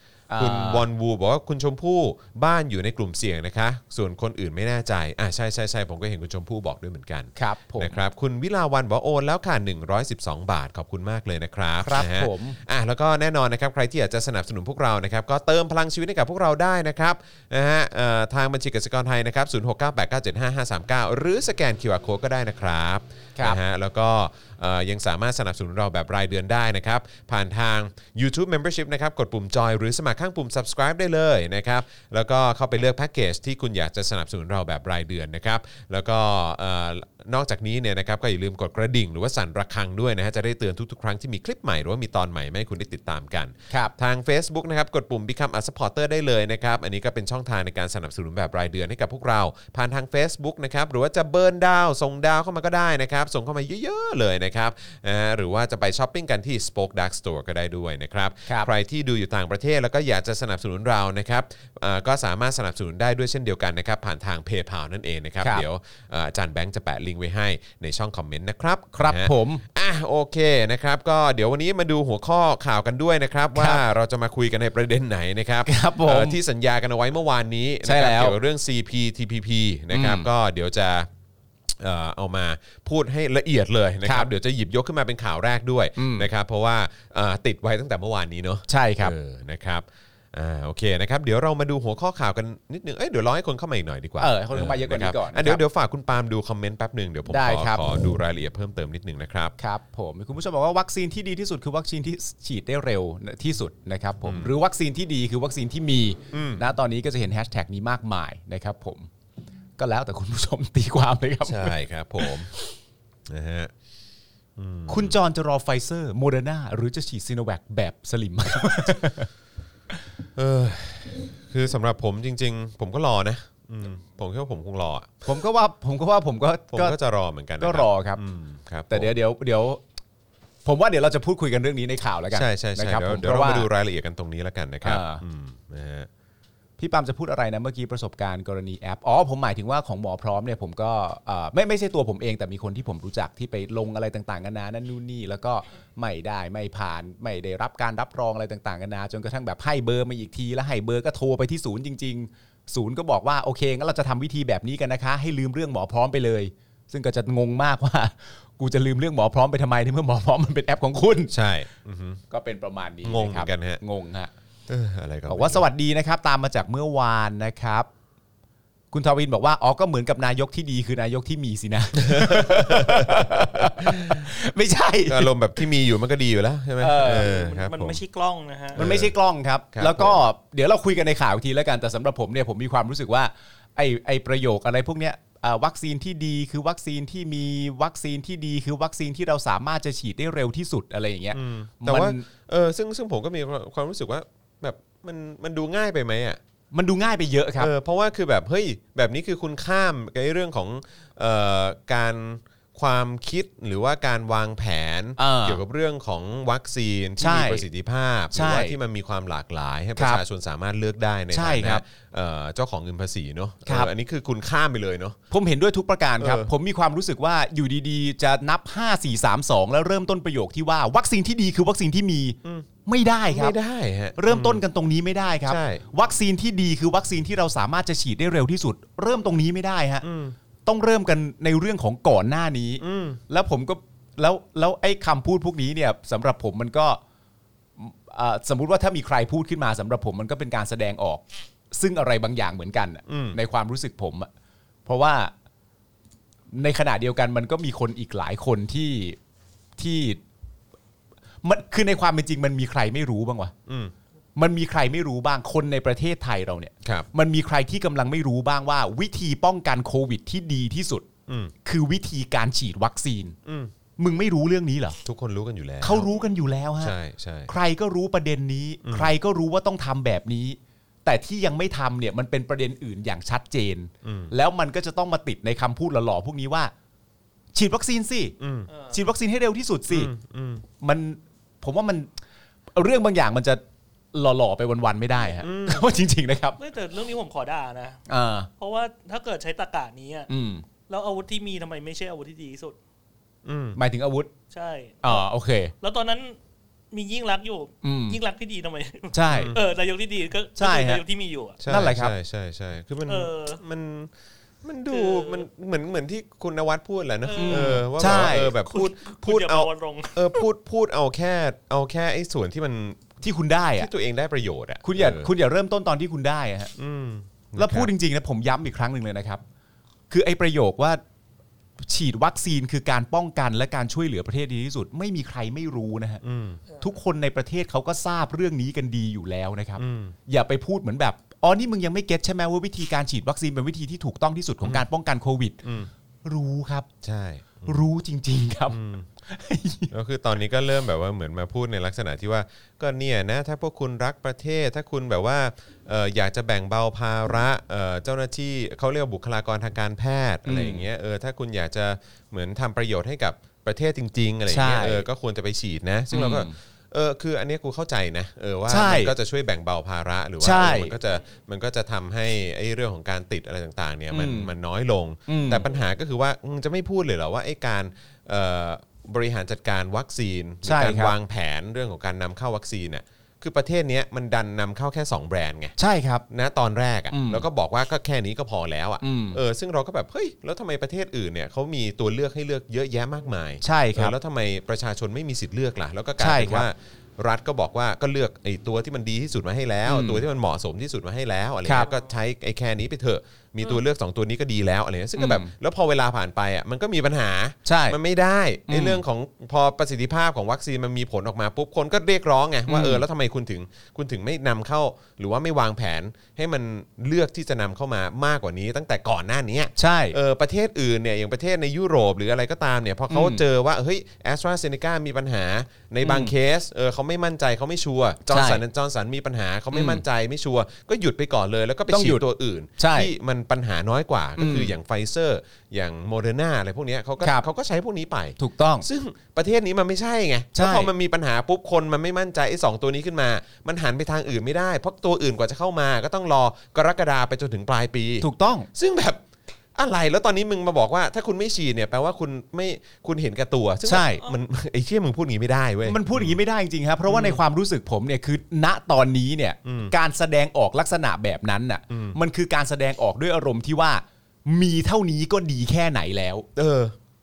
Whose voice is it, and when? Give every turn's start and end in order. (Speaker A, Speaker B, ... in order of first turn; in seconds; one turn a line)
Speaker A: 0.3-0.8
Speaker B: 0.3-81.1
Speaker A: 7.3-8.0
Speaker A: 11.8-12.6
Speaker A: 68.9-69.6
Speaker A: 73.5-73.8
Speaker A: 75.6-76.4
Speaker A: 77.8-78.3
Speaker A: 79.9-80.3
Speaker B: 81.7-99.5
Speaker A: 86.0-86.3
Speaker A: 88.7-89.1
Speaker A: 94.2-95.6
Speaker A: 97.3-97.8
Speaker A: 99.6-109.1
Speaker B: 104.2-104.5
Speaker B: 106.3-106.6
Speaker A: 109.8-112.4
Speaker B: 111.4-112.5
Speaker B: 113.3-113.7
Speaker B: 114.6-115.1
Speaker A: 114.9-119.3
Speaker B: 120.3-125.2
Speaker A: 125.2-127.0
Speaker B: 126.7-129.1
Speaker A: 127.6-128.2
Speaker A: 128.9-129.8
Speaker A: 130.6-133.7
Speaker B: 132.3-136.1
Speaker A: 134.8-135.2
Speaker A: 136.8-161.3
Speaker B: 161.3-162.2
Speaker A: 162.3-164.3
Speaker B: 163.0-163.8
Speaker B: 164.7-165.6
Speaker A: 165.3-167.9
Speaker A: 168.9-175.3
Speaker B: 172.0-174.3
Speaker B: 175.1-178.0
Speaker A: 176.8-177.3
Speaker C: 176.9-178.8
Speaker B: 178.7-179.1
Speaker A: 178.8-192.3
Speaker B: 179.7-180.2
Speaker B: 191.3-196.4
Speaker A: 196.7-197.7
Speaker B: 197.6-215.2
Speaker A: 205.2-205.6
Speaker A: 207.2-207.6
Speaker A: 208.3-208.8
Speaker A: 209.9-210.2
Speaker A: 211.3-211.8
Speaker A: 213.7-213.9
Speaker A: 215.3-223.6
Speaker B: 216.2-216.5
Speaker B: 223.3-224.6
Speaker A: 224.2-230.1
Speaker B: 225.5-225.8
Speaker B: 230.0-230.3
Speaker A: 230.7-237.0
Speaker B: 232.8-233.2
Speaker A: 237.8-244.3
Speaker B: 243.1-243.4
Speaker A: 244.8-245.3
Speaker A: 246.5-249.2
Speaker A: 249.8-250.2
Speaker A: 251.4-253.5
Speaker B: 253.7-253.9
Speaker A: 254.3-261.1
Speaker B: 261.3-261.5
Speaker A: 261.6-263.4
Speaker B: 263.4-263.7
Speaker A: 264.0-265.0
Speaker B: 265.0-266.1
Speaker A: 265.8-266.9
Speaker B: 266.8-267.5
Speaker A: 267.5-276.7
Speaker B: 268.8-269.1
Speaker B: 274.0-274.3
Speaker A: 277.5-278.3
Speaker B: 278.4-278.7
Speaker C: 278.7-279.0
Speaker A: 278.9-280.1
Speaker B: 279.9-280.6
Speaker A: 280.8-282.1
Speaker A: 282.7-283.6
Speaker A: 284.1-286.6
Speaker B: 285.4-285.9
Speaker C: 286.6-288.0
Speaker A: 288.1-288.5
Speaker C: 288.6-290.3
Speaker A: 290.3-290.6
Speaker C: 290.9-292.8
Speaker B: 293.4-293.8
Speaker A: 293.8-294.3
Speaker C: 294.5-295.3
Speaker A: 295.0-295.7
Speaker C: 295.8-296.4
Speaker C: 296.9-301.6
Speaker A: 297.8-298.2
Speaker A: 299.1-299.5
Speaker B: 299.3-299.6
Speaker A: 300.6-301.0
Speaker B: 301.6-304.1
Speaker A: 301.6-302.1
Speaker C: 303.1-303.6
Speaker B: 304.6-313.1
Speaker C: 304.9-305.4
Speaker C: 307.2-310.4
Speaker A: 307.4-308.5
Speaker A: 313.2-313.9
Speaker B: 313.8-315.3
Speaker A: 314.8-316.7
Speaker B: 316.8-317.9
Speaker A: 317.6-319.4
Speaker A: 320.1-321.0
Speaker A: 321.9-326.2
Speaker B: 326.2-326.6
Speaker A: 326.8-335.6
Speaker B: 329.8-330.1
Speaker B: 335.6-335.9
Speaker A: 336.2-336.9
Speaker B: 337.0-337.8
Speaker A: 337.6-339.9
Speaker B: 338.7-339.1
Speaker B: 339.9-375.7
Speaker A: 350.4-350.8
Speaker A: 354.5-355.0
Speaker A: 356.1-356.5
Speaker A: 358.7-359.1
Speaker A: 360.4-360.9
Speaker A: 364.1-364.5
Speaker A: 365.3-365.6
Speaker A: 370.6-371.1
Speaker A: 375.8-376.2
Speaker B: 376.3-439.2
Speaker A: 377.1-377.4
Speaker A: 379.0-379.4
Speaker A: 383.6-384.1
Speaker A: 386.2-386.7
Speaker A: 389.9-390.2
Speaker A: 391.6-391.9
Speaker A: 395.1-395.5
Speaker A: 397.6-398.0
Speaker A: 398.7-399.0
Speaker A: 402.7-403.0
Speaker A: 409.8-410.2
Speaker A: 413.1-413.4
Speaker A: 416.0-416.3
Speaker A: 418.3-418.6
Speaker A: 419.7-420.0
Speaker A: 421.9-422.2
Speaker A: 422.8-423.1
Speaker A: 424.4-424.7
Speaker A: 428.4-428.9
Speaker A: 430.5-430.9
Speaker A: 438.2-438.7
Speaker B: 439.7-446.4
Speaker A: 443.9-444.2
Speaker A: 445.8-456.5
Speaker B: 447.1-447.4
Speaker B: 449.6-449.9
Speaker B: 451.9-452.2
Speaker B: 456.5-456.9